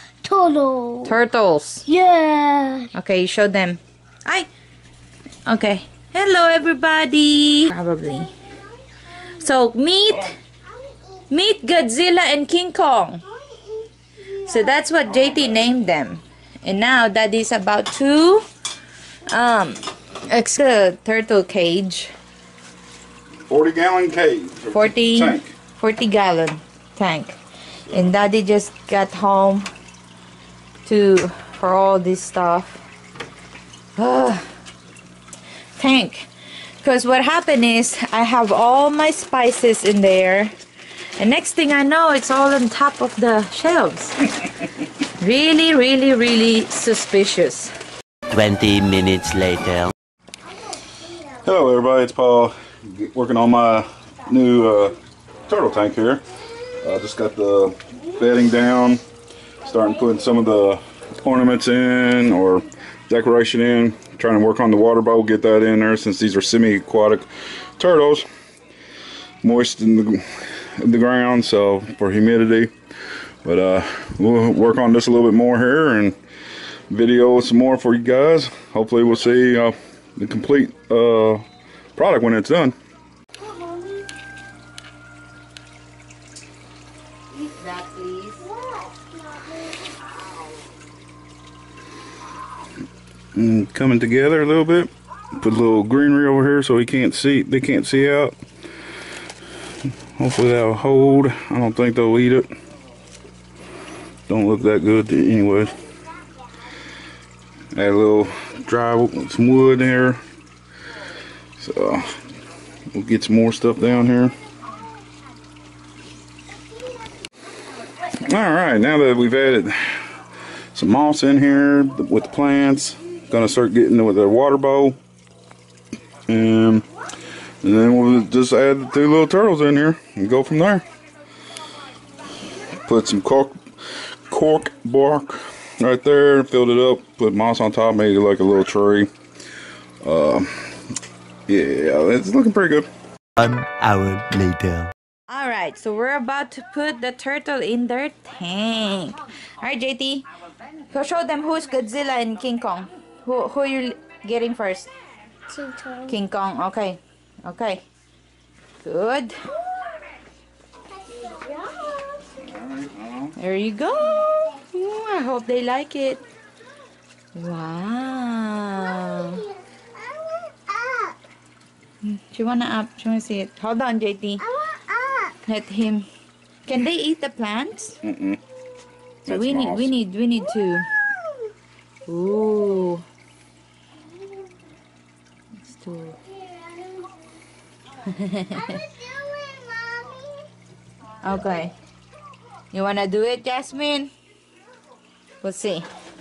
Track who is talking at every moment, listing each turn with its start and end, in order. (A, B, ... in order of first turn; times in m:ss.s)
0:00.2-0:01.1 A
0:01.0-0:01.8 B
0:01.9-0:02.9 A
0:02.9-0:04.5 B
0:05.4-0:08.3 B
0:09.4-0:10.3 B
0:10.8-0:11.1 A
0:11.3-0:13.2 B
0:13.4-0:14.8 A
0:14.4-0:18.4 B
0:19.3-0:22.1 B
0:23.5-0:25.5 C
0:24.7-0:27.4 B
0:27.9-0:29.7 B
0:30.8-0:32.8 B
0:34.0-0:34.5 B
0:35.8-0:40.5 B
0:41.2-0:44.2 B
0:45.2-0:47.7 B
0:48.3-0:49.9 D
0:51.4-0:55.0 C
0:55.5-0:56.2 C
0:56.8-0:59.0 C
0:59.6-1:07.3 C
1:07.8-1:08.3 C
1:09.4-1:12.7 C
1:13.4-1:16.1 C
1:16.9-1:21.4 C
1:22.0-1:22.7 C
1:23.4-1:24.1 A
1:27.3-1:28.4 B
1:28.4-1:30.2 A
1:33.3-1:38.3 C
1:40.2-1:42.5 C
1:44.3-1:45.8 C
1:47.7-1:50.2 C
1:51.6-1:52.2 C
1:52.9-1:54.4 C
1:58.2-2:00.0 C
2:00.7-2:05.0 C
2:06.3-2:06.8 C
2:07.6-2:10.8 C
2:12.8-2:13.6 C
2:14.3-2:19.1 C
2:20.0-2:20.7 C
2:21.5-2:22.9 C
2:23.4-2:24.9 D
2:25.3-2:30.3 B
2:30.9-2:34.9 B
2:35.5-2:36.2 A
2:36.1-2:37.8 B
2:38.8-2:39.4 B
2:41.0-2:42.4 A
2:42.4-2:43.4 C
2:43.4-2:46.2 B
2:47.3-2:49.4 B
2:48.8-2:51.2 A
2:52.0-2:54.4 B
2:54.4-2:55.4 A
2:55.4-2:56.1 B
2:56.7-2:58.0 B
2:58.0-2:58.4 C
2:59.2-3:00.0 C
2:59.3-3:00.9 B
3:02.1-3:03.0 B
3:05.7-3:06.2 B
3:06.3-3:07.2 A
3:08.0-3:08.8 B
3:08.5-3:10.5 A
3:11.2-3:11.7 B
3:12.7-3:14.1 B
3:15.4-3:15.8 B